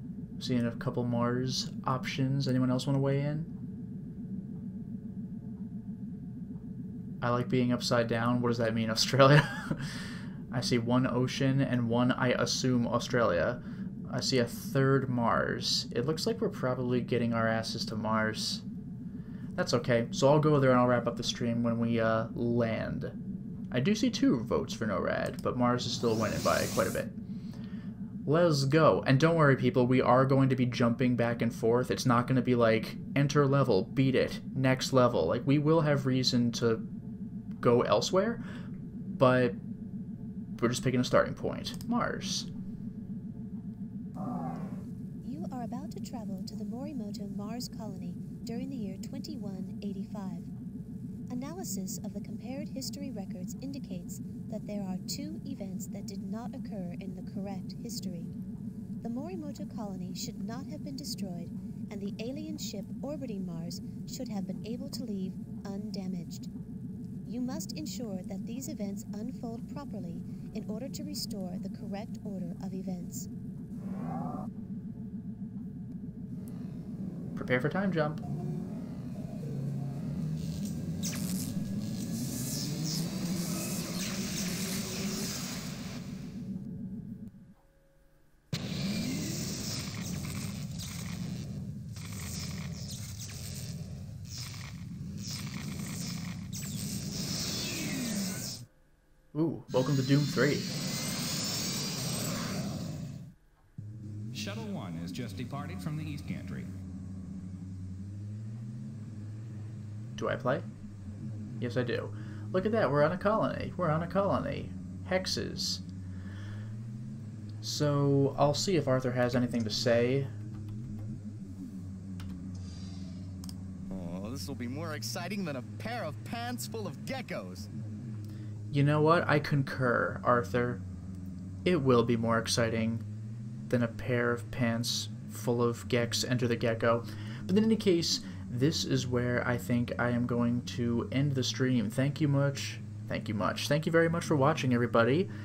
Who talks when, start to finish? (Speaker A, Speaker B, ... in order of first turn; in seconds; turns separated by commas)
Speaker A: 0.4-3.5, Speaker A: 7.2-9.9, Speaker A: 10.5-18.6, Speaker A: 19.6-23.1, Speaker A: 23.7-27.1, Speaker A: 28.2-36.8, Speaker A: 37.6-38.4, Speaker A: 39.2-39.6, Speaker A: 40.6-42.5, Speaker B: 45.2-50.5, Speaker B: 51.3-58.3, Speaker B: 59.0-66.5, Speaker B: 67.2-73.3, Speaker A: 77.3-78.2, Speaker A: 99.3-100.7, Speaker C: 104.3-106.7, Speaker A: 110.2-110.7, Speaker A: 111.6-115.8, Speaker A: 117.6-120.3, Speaker D: 123.9-127.7, Speaker A: 128.7-130.8, Speaker A: 131.6-133.0, Speaker A: 133.7-145.3